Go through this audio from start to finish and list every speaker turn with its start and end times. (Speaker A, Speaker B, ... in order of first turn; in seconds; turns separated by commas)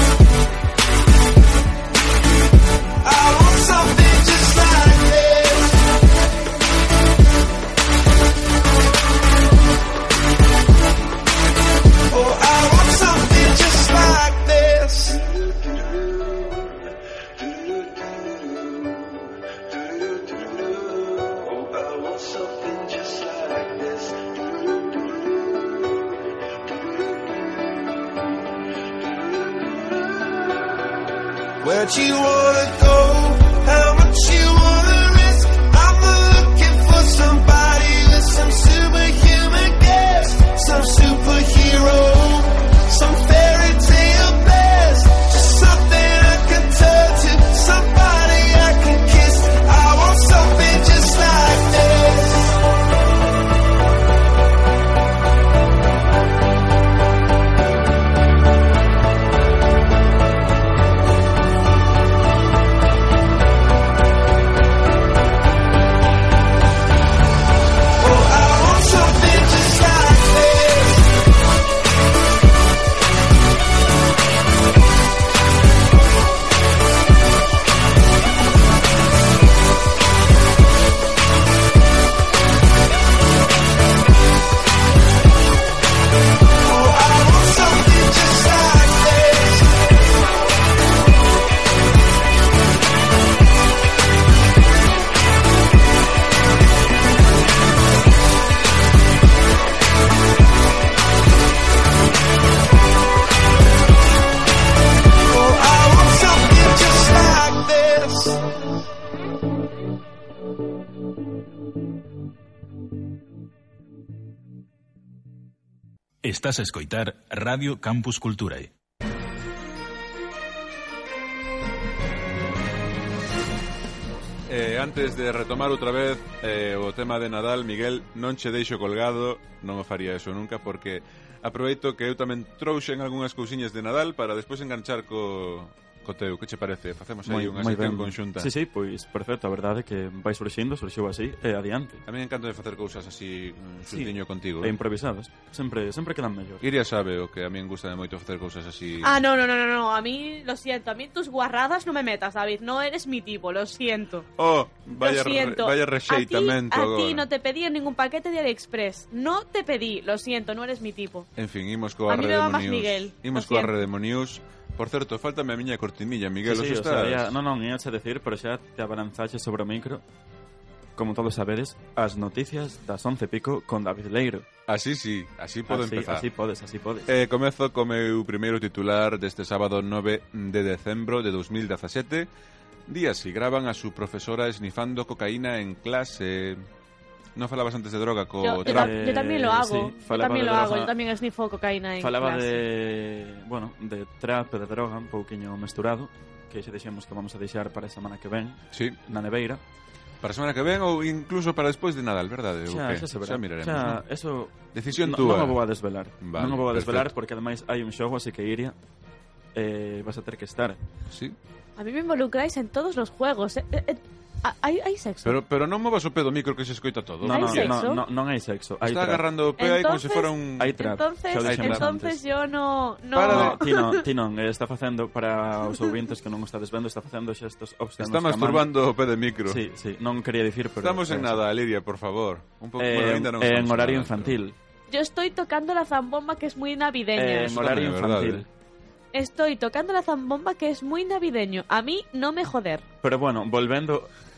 Speaker A: 3.0-5.9, Speaker A: 12.1-25.9, Speaker A: 27.1-27.4, Speaker A: 29.0-30.4, Speaker A: 31.6-52.6, Speaker A: 68.0-71.1, Speaker A: 86.6-89.7, Speaker A: 105.3-108.4, Speaker B: 116.2-118.7, Speaker C: 124.5-138.5, Speaker D: 137.2-142.0, Speaker C: 142.1-144.8, Speaker D: 143.9-146.6, Speaker C: 146.6-149.2, Speaker E: 149.0-154.3, Speaker C: 154.4-157.3, Speaker E: 155.0-161.3, Speaker C: 161.4-167.4, Speaker E: 162.1-163.7, Speaker D: 166.4-170.0, Speaker D: 171.0-174.5, Speaker C: 174.7-176.3, Speaker D: 175.7-177.1, Speaker C: 177.1-182.3, Speaker C: 182.9-186.6, Speaker C: 187.4-189.0, Speaker E: 188.4-192.7, Speaker D: 188.6-190.9, Speaker D: 192.0-199.6, Speaker C: 198.7-199.0, Speaker C: 200.2-204.0, Speaker D: 202.7-208.8, Speaker C: 204.7-205.6, Speaker C: 206.2-207.1, Speaker D: 209.6-210.8, Speaker C: 211.1-211.4, Speaker E: 211.8-215.4, Speaker C: 215.2-217.8, Speaker D: 217.2-219.2, Speaker E: 217.3-218.0, Speaker C: 218.8-220.8, Speaker E: 219.6-224.0, Speaker D: 220.6-222.2, Speaker C: 221.4-221.9, Speaker C: 223.1-223.6, Speaker D: 223.3-228.7, Speaker C: 228.0-229.6, Speaker D: 229.5-231.4, Speaker C: 230.8-234.4, Speaker D: 232.8-234.6, Speaker E: 234.9-237.5, Speaker D: 237.2-238.5, Speaker C: 237.4-238.4, Speaker E: 239.1-242.8, Speaker D: 243.0-244.1